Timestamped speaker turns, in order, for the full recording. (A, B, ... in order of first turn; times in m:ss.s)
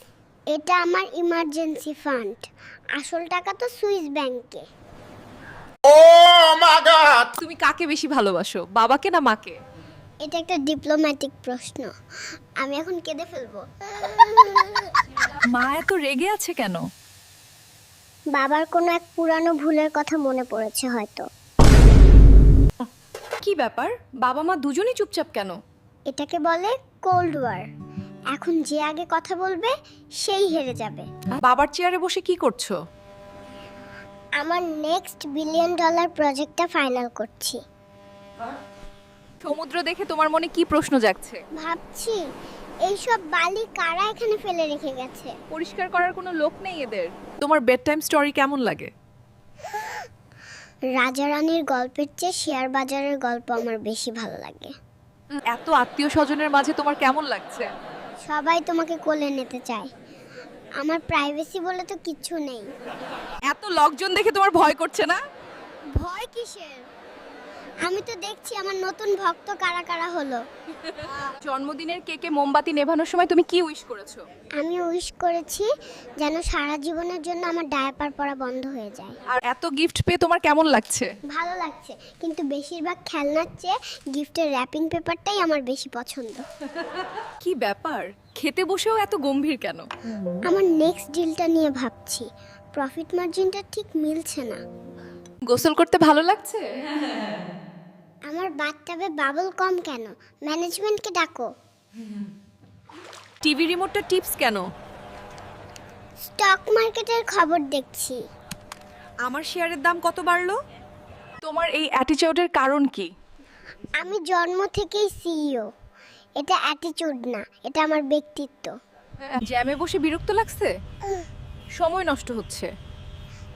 0:00.5-0:02.4 A
0:03.0-0:04.6 A
0:07.4-0:09.6 B
0:10.2-0:11.9 A
0:12.6-0:14.9 A
0:15.5-0:16.8 B
0:18.3-0:21.2 A
0:23.4-0:25.6 B
0:26.1-0:27.6 A
0:28.3-0:31.1 A
0:31.4-0:32.8 B
0:34.4-0:37.6 A
0:39.4-0:41.4 B
0:41.6-0:42.2 A
0:42.9-0:45.3 A
0:45.5-0:48.9 B
0:51.0-0:54.7 A
0:55.5-0:57.7 B
0:58.3-0:59.9 A
1:00.8-1:02.6 A
1:03.5-1:05.2 B
1:06.0-1:06.8 A
1:07.8-1:10.4 A
1:10.8-1:14.2 B
1:14.6-1:15.7 A
1:16.2-1:19.2 A
1:19.3-1:21.1 B
1:21.3-1:26.4 A
1:27.4-1:29.9 B
1:30.4-1:32.2 A
1:32.8-1:34.6 A
1:35.5-1:37.4 B
1:38.3-1:41.5 A
1:43.4-1:44.6 B
1:46.3-1:48.2 A
1:49.2-1:50.6 B
1:51.4-1:53.1 B
1:54.0-1:55.7 A
1:56.4-1:58.7 A
1:59.2-2:00.7 B
2:01.8-2:02.7 B